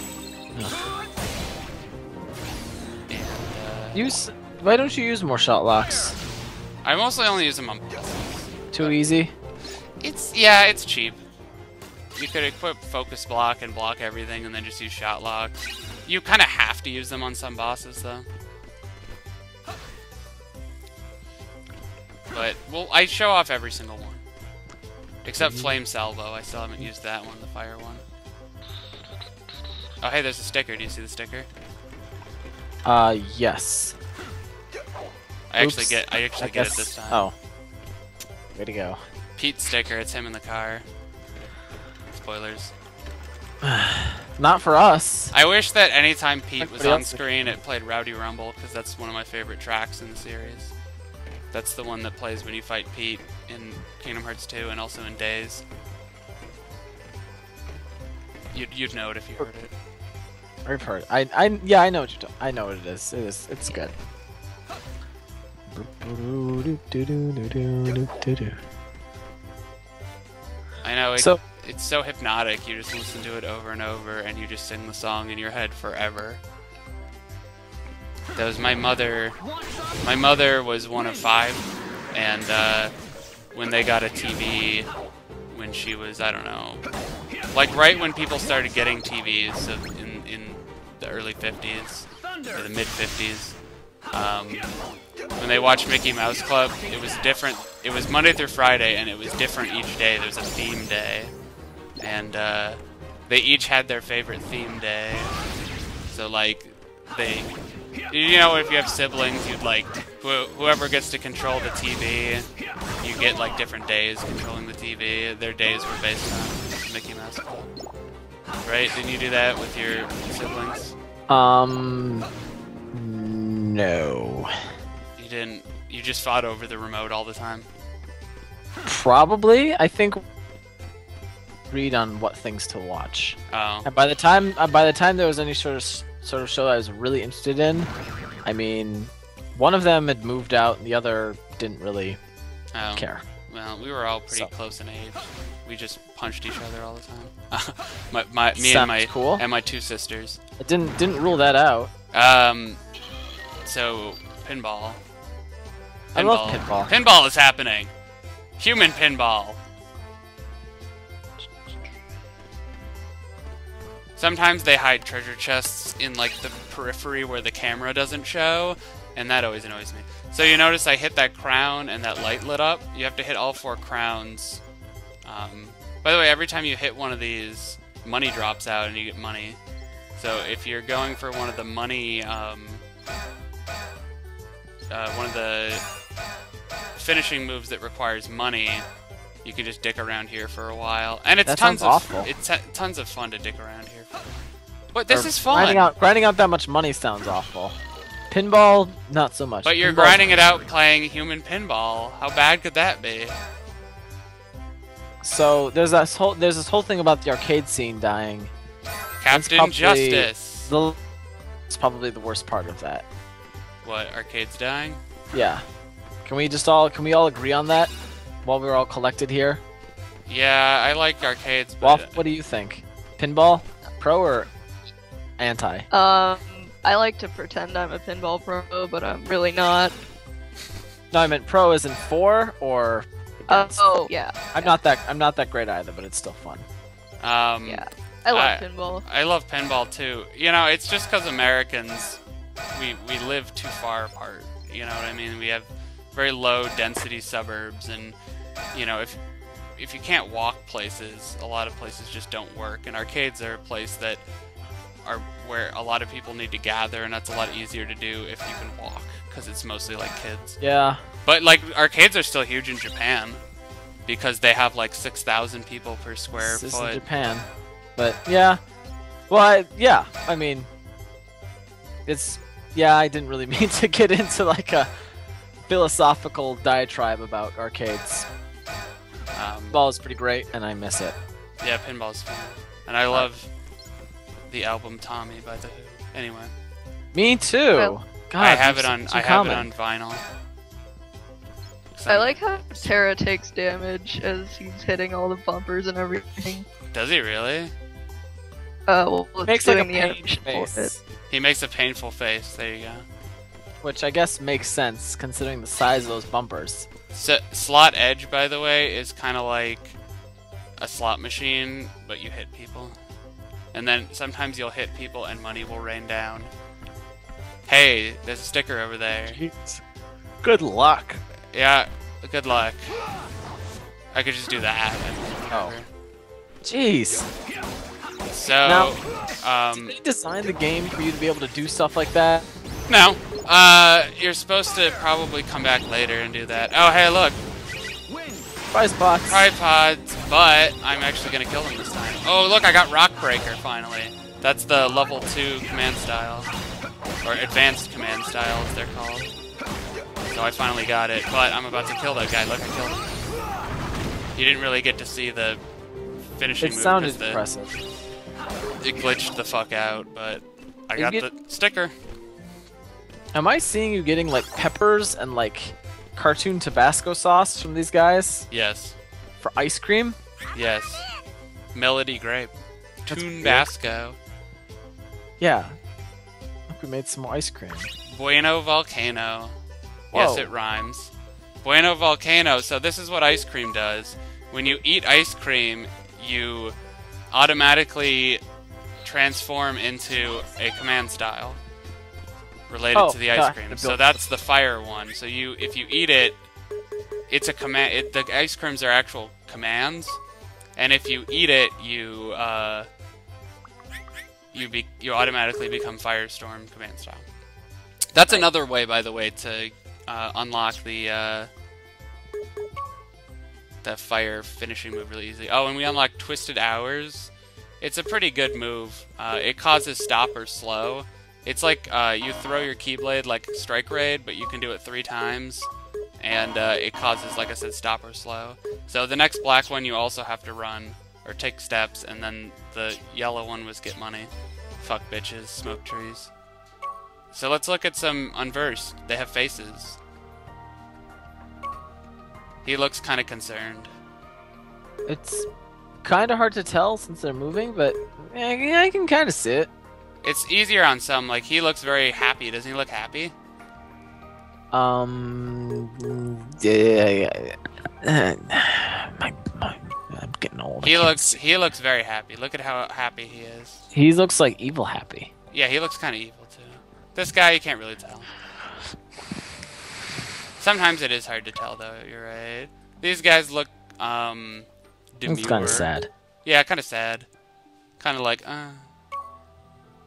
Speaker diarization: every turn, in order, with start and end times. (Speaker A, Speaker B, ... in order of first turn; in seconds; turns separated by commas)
Speaker A: 3.1-4.1, Speaker B: 3.9-6.2, Speaker A: 6.8-9.0, Speaker B: 8.7-9.3, Speaker A: 10.0-11.2, Speaker A: 12.2-18.3, Speaker A: 22.3-24.2, Speaker A: 25.2-28.0, Speaker B: 25.4-25.8, Speaker A: 30.0-31.5, Speaker B: 32.9-34.0, Speaker A: 35.5-37.3, Speaker B: 35.6-37.4, Speaker B: 38.5-39.0, Speaker A: 39.4-40.9, Speaker A: 42.1-42.7, Speaker B: 43.6-45.3, Speaker A: 45.3-50.7, Speaker B: 46.6-47.2, Speaker A: 51.5-55.6, Speaker A: 58.5-59.7, Speaker B: 60.6-63.9, Speaker B: 65.7-68.6, Speaker A: 70.8-76.4, Speaker A: 78.3-79.4, Speaker A: 80.0-82.9, Speaker A: 83.5-84.9, Speaker A: 85.5-86.8, Speaker A: 87.5-93.6, Speaker A: 94.1-94.7, Speaker A: 95.4-101.3, Speaker A: 102.0-105.4, Speaker A: 106.1-112.5, Speaker A: 113.0-117.7, Speaker A: 118.7-121.0, Speaker B: 121.3-122.3, Speaker B: 122.9-124.5, Speaker A: 125.2-127.7, Speaker B: 128.9-130.2, Speaker B: 131.7-137.9, Speaker A: 133.5-133.9, Speaker B: 138.4-142.2, Speaker A: 142.7-150.4, Speaker B: 142.9-143.2, Speaker B: 148.6-149.4, Speaker B: 150.6-151.9, Speaker A: 152.1-152.8, Speaker A: 153.6-155.0, Speaker A: 156.1-157.9, Speaker B: 156.2-156.9, Speaker A: 158.6-159.6, Speaker A: 164.2-174.6, Speaker A: 175.2-179.6, Speaker A: 180.2-182.8, Speaker A: 184.9-185.8, Speaker A: 186.9-188.9, Speaker A: 189.4-194.4, Speaker B: 191.5-192.3, Speaker A: 194.9-195.9, Speaker B: 195.1-197.8, Speaker B: 198.3-200.3, Speaker A: 199.6-203.4, Speaker B: 205.2-208.5, Speaker A: 209.2-210.7, Speaker B: 209.3-211.0, Speaker B: 211.7-213.1, Speaker A: 213.8-215.0, Speaker B: 215.3-215.6, Speaker B: 216.2-217.9, Speaker B: 218.4-219.6, Speaker A: 220.3-222.2, Speaker B: 221.8-224.5, Speaker B: 225.4-225.9, Speaker C: 225.9-230.0, Speaker B: 231.1-233.8, Speaker C: 233.5-234.8, Speaker B: 234.5-236.7, Speaker A: 237.2-242.2, Speaker C: 237.7-239.1, Speaker A: 242.7-248.2, Speaker A: 248.7-249.2, Speaker A: 249.8-254.2, Speaker A: 255.0-260.6, Speaker B: 260.6-261.0, Speaker A: 261.2-263.4, Speaker A: 264.1-267.0, Speaker B: 266.4-268.6, Speaker B: 269.3-270.7, Speaker B: 272.1-274.9, Speaker B: 275.7-278.3, Speaker A: 279.3-279.8, Speaker B: 279.7-281.1, Speaker A: 281.6-283.5, Speaker A: 284.5-286.5, Speaker B: 287.1-289.7, Speaker A: 288.4-290.2, Speaker A: 291.9-292.9, Speaker C: 292.1-296.7, Speaker A: 296.9-297.7, Speaker C: 298.9-300.9, Speaker B: 299.5-301.0, Speaker A: 301.3-303.1, Speaker B: 303.8-306.9, Speaker A: 307.1-310.0, Speaker A: 310.8-313.0, Speaker A: 313.7-316.5, Speaker A: 317.7-319.4, Speaker B: 319.3-319.8, Speaker B: 320.4-321.2, Speaker A: 321.5-323.2, Speaker A: 324.1-325.9, Speaker B: 325.5-325.8, Speaker B: 326.6-327.3, Speaker A: 328.3-329.9, Speaker B: 328.6-328.9, Speaker B: 329.7-332.4, Speaker A: 332.9-337.4, Speaker B: 338.7-339.4, Speaker A: 339.3-346.5, Speaker A: 347.2-349.3, Speaker A: 350.3-353.1, Speaker A: 354.4-355.6, Speaker A: 356.3-357.4, Speaker B: 356.6-357.7, Speaker A: 358.8-361.9, Speaker B: 361.0-361.3, Speaker B: 363.3-368.5, Speaker A: 368.5-369.0, Speaker B: 369.4-370.2, Speaker A: 370.5-371.1, Speaker A: 371.7-374.2, Speaker B: 373.1-373.7, Speaker B: 375.4-375.8, Speaker B: 376.7-377.9, Speaker A: 378.1-379.6, Speaker B: 380.1-380.5, Speaker A: 380.1-386.8, Speaker A: 387.3-388.4, Speaker A: 389.0-391.6, Speaker A: 392.7-396.4, Speaker B: 392.9-394.2, Speaker A: 397.3-400.2, Speaker A: 400.8-402.9, Speaker A: 404.5-407.2, Speaker A: 408.1-411.5, Speaker A: 413.8-425.7, Speaker A: 426.2-436.3, Speaker A: 437.3-440.0, Speaker A: 442.6-443.9, Speaker B: 445.1-445.5, Speaker B: 446.0-449.7, Speaker A: 450.2-453.4, Speaker B: 454.7-461.4, Speaker A: 460.8-463.9, Speaker B: 463.9-465.3, Speaker A: 465.5-468.3, Speaker A: 470.6-475.9, Speaker B: 475.3-476.1, Speaker A: 476.4-477.3, Speaker A: 478.0-478.9